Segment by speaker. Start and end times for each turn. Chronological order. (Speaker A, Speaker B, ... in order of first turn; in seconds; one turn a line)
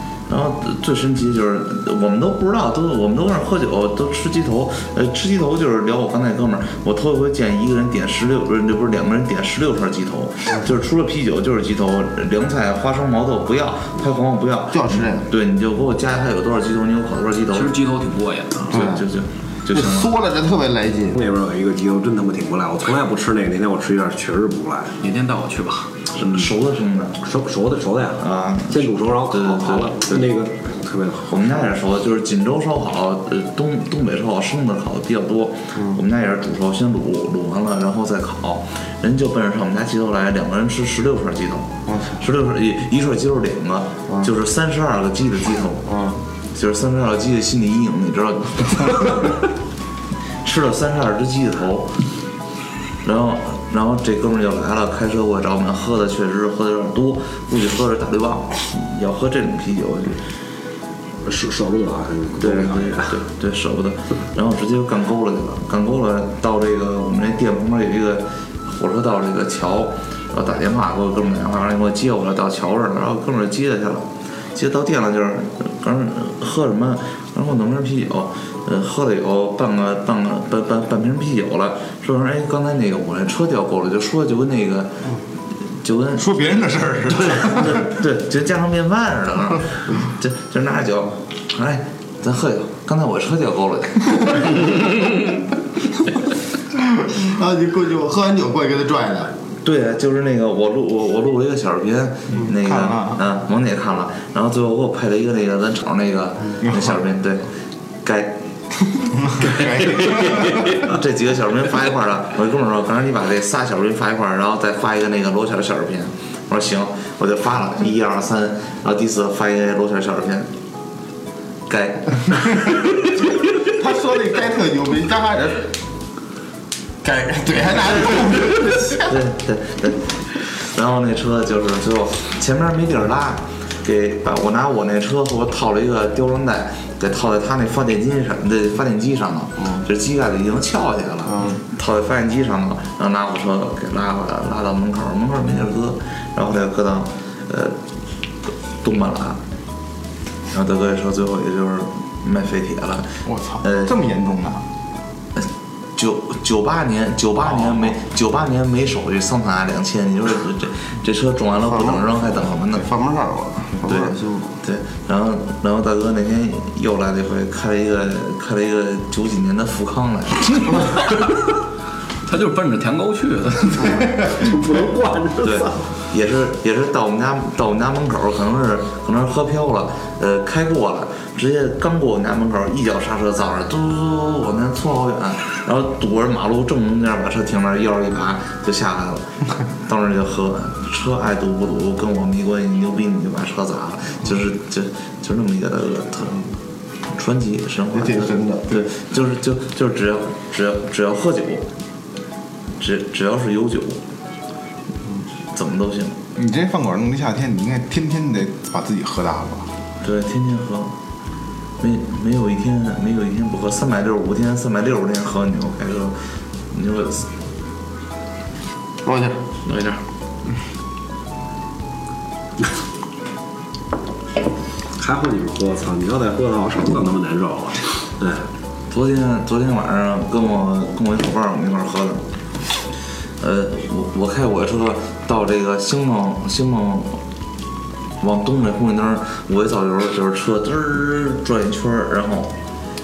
Speaker A: 0.3-17.7
Speaker B: 14.7-15.3
Speaker C: 17.5-18.8
Speaker A: 18.7-20.1
Speaker B: 18.7-19.0
Speaker B: 19.7-21.1
Speaker D: 21.1-24.9
Speaker C: 25.0-26.0
Speaker A: 26.1-27.2
Speaker D: 27.2-31.7
Speaker A: 28.2-30.1
Speaker A: 31.2-46.0
Speaker B: 41.9-42.2
Speaker B: 45.9-46.2
Speaker A: 46.5-49.4
Speaker A: 50.4-51.9
Speaker A: 53.0-60.2
Speaker D: 61.2-63.2
Speaker A: 62.4-85.0
Speaker A: 85.8-86.4
Speaker E: 86.2-87.9
Speaker A: 87.0-94.8
Speaker B: 97.0-99.3
Speaker A: 99.6-107.5
Speaker E: 102.5-103.2
Speaker A: 108.0-108.4
Speaker E: 109.3-110.6
Speaker A: 109.4-120.5
Speaker A: 121.7-122.8
Speaker B: 123.7-125.7
Speaker B: 127.0-129.1
Speaker A: 128.1-147.8
Speaker B: 141.3-141.6
Speaker A: 148.8-149.4
Speaker A: 150.5-153.1
Speaker E: 153.2-154.7
Speaker A: 153.6-153.9
Speaker A: 155.3-162.9
Speaker B: 161.6-164.6
Speaker A: 163.8-171.0
Speaker C: 172.2-174.3
Speaker D: 174.1-175.8
Speaker A: 175.4-189.2
Speaker A: 189.8-196.4
Speaker A: 197.1-201.7
Speaker B: 197.9-198.9
Speaker A: 202.8-204.0
Speaker A: 205.5-206.2
Speaker E: 206.3-209.7
Speaker A: 210.0-210.9
Speaker A: 211.8-216.1
Speaker A: 216.7-217.3
Speaker B: 219.0-219.4
Speaker D: 225.0-228.4
Speaker A: 228.9-232.2
Speaker A: 233.4-237.2
Speaker A: 238.2-242.5